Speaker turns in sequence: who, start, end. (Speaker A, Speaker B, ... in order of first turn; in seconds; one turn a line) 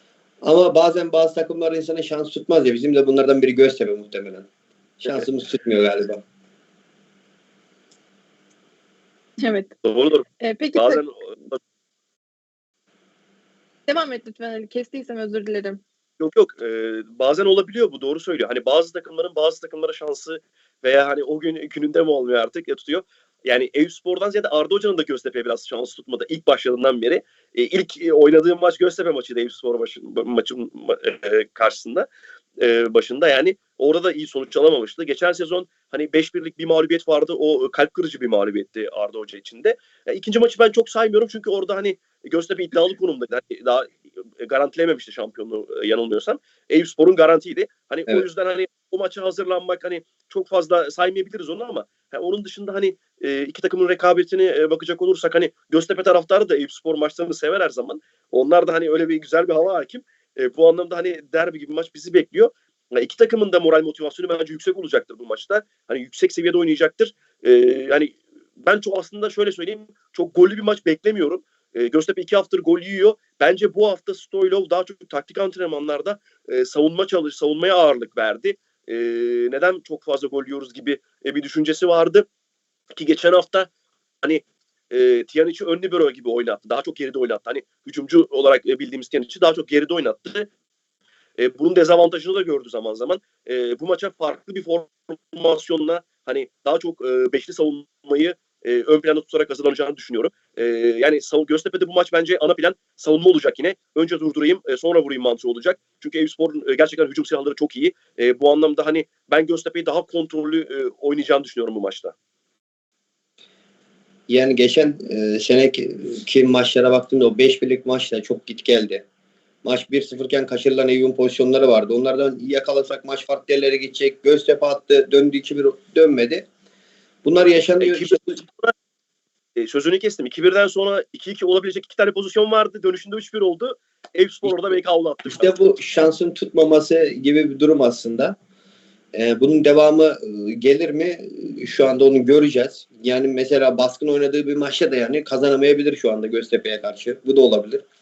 Speaker A: 0.4-4.5
Speaker A: 5.0-6.2
Speaker B: 9.4-9.7
Speaker C: 9.8-10.2
Speaker B: 10.4-11.0
Speaker C: 10.7-11.6
Speaker B: 13.9-15.8
Speaker C: 16.2-32.0
Speaker C: 32.6-82.2
Speaker C: 82.9-83.7
Speaker C: 84.2-90.5
Speaker C: 91.4-112.1
Speaker A: 114.3-119.0
Speaker A: 119.6-126.5
Speaker A: 127.2-128.2
Speaker C: 127.8-128.7
Speaker C: 129.6-135.6
Speaker A: 134.4-134.7
Speaker A: 135.3-138.3
Speaker A: 139.1-147.8